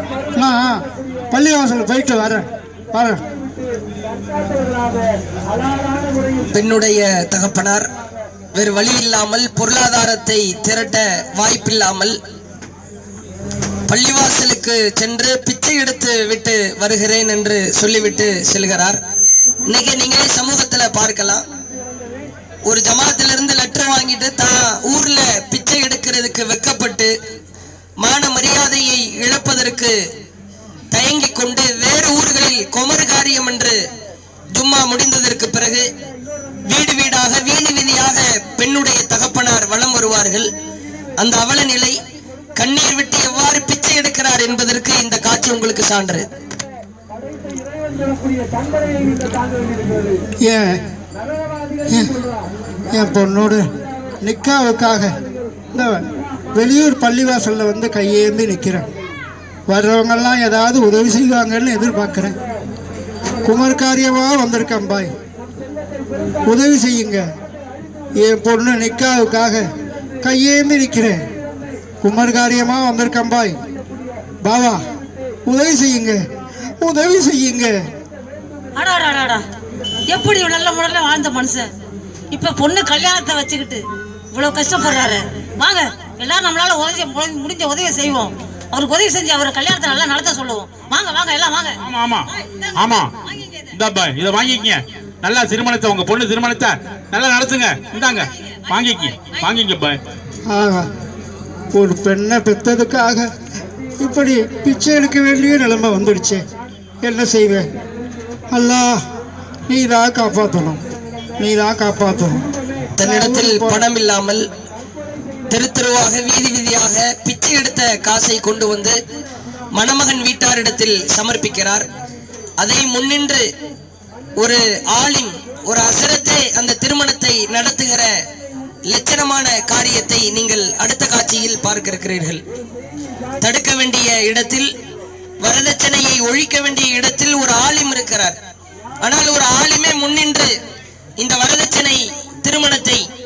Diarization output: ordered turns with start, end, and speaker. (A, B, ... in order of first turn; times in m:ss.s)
0:00.3-0:03.2 A
0:06.4-0:07.9 B
0:08.5-0:12.2 B
0:13.9-0:19.0 B
0:19.7-0:21.4 B
0:22.6-0:27.1 B
0:28.0-0:29.9 B
0:30.9-0:33.8 B
0:34.6-0:35.9 B
0:36.7-0:40.5 B
0:41.2-0:42.0 B
0:42.6-0:46.3 B
0:50.4-0:50.8 A
0:51.9-0:52.2 A
0:52.9-0:53.6 A
0:54.2-0:55.1 A
0:55.7-0:58.9 A
0:59.7-1:02.4 A
1:03.4-1:05.1 A
1:06.4-1:07.2 A
1:08.2-1:09.6 A
1:10.2-1:11.2 A
1:12.0-1:13.6 A
1:14.4-1:14.8 A
1:15.4-1:16.2 A
1:16.8-1:17.7 A
1:18.8-1:19.4 C
1:20.1-1:21.7 C
1:22.3-1:31.8 C
1:31.8-1:33.1 D
1:33.7-1:40.0 D
1:40.5-1:40.9 A
1:41.7-1:43.3 A
1:44.0-1:46.4 A
1:47.0-1:47.7 A
1:48.5-1:49.0 A
1:49.7-1:50.8 A
1:51.4-1:52.4 A
1:53.0-1:54.4 B
1:53.0-1:53.8 A
1:55.5-1:59.0 B
1:59.7-2:01.9 B
2:02.6-2:03.4 B
2:04.4-2:08.1 B
2:08.9-2:12.4 B
2:13.4-2:14.7 B
2:15.4-2:18.4 B
2:19.0-2:20.5 B
2:21.2-2:23.0 B